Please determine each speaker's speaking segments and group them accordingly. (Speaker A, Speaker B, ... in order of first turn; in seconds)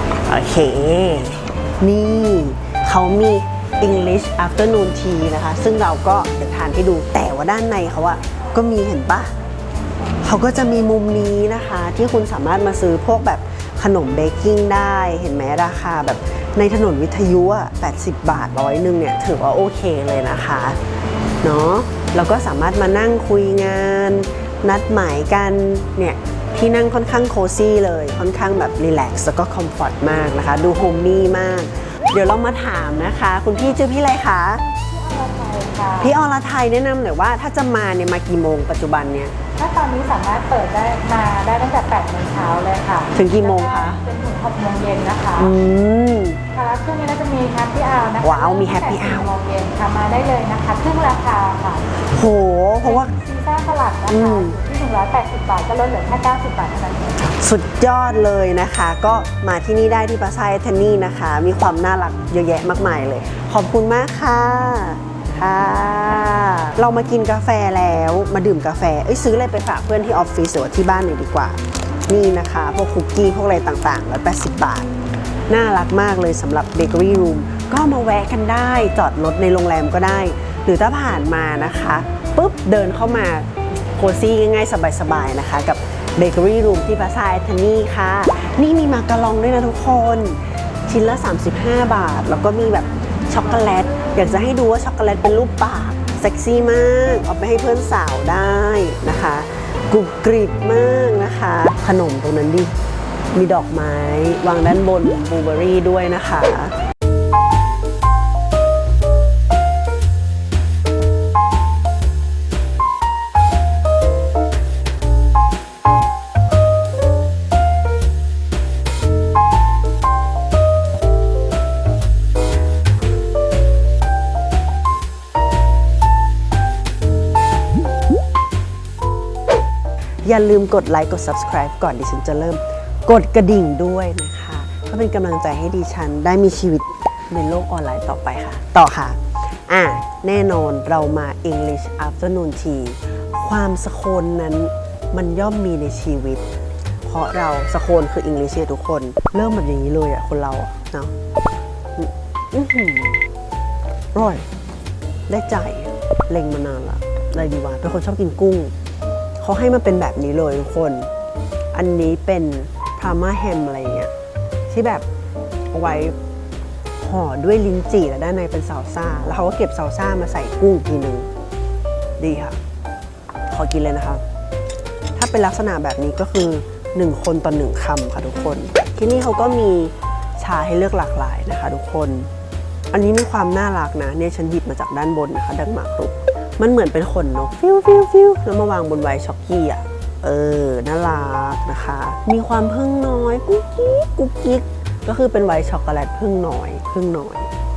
Speaker A: 0.3-9.3, 10.2-20.8, 21.4-34.6, 36.0-39.3, 43.1-44.0, 45.4-46.4, 48.2-49.3, 52.1-53.1, 54.1-54.6, 57.2-74.9, 75.5-102.7, 103.3-106.7, 130.2-146.4, 147.1-151.1, 152.0-153.2, 154.1-154.4, 155.3-158.7, 159.4-161.1, 161.7-164.1, 164.7-165.1, 165.7-166.2, 167.0-171.3, 172.2-172.6, 173.5-174.2, 175.2-182.3, 182.9-197.5
Speaker B: 34.9-36.1, 39.6-45.5, 46.5-51.9, 52.8-57.2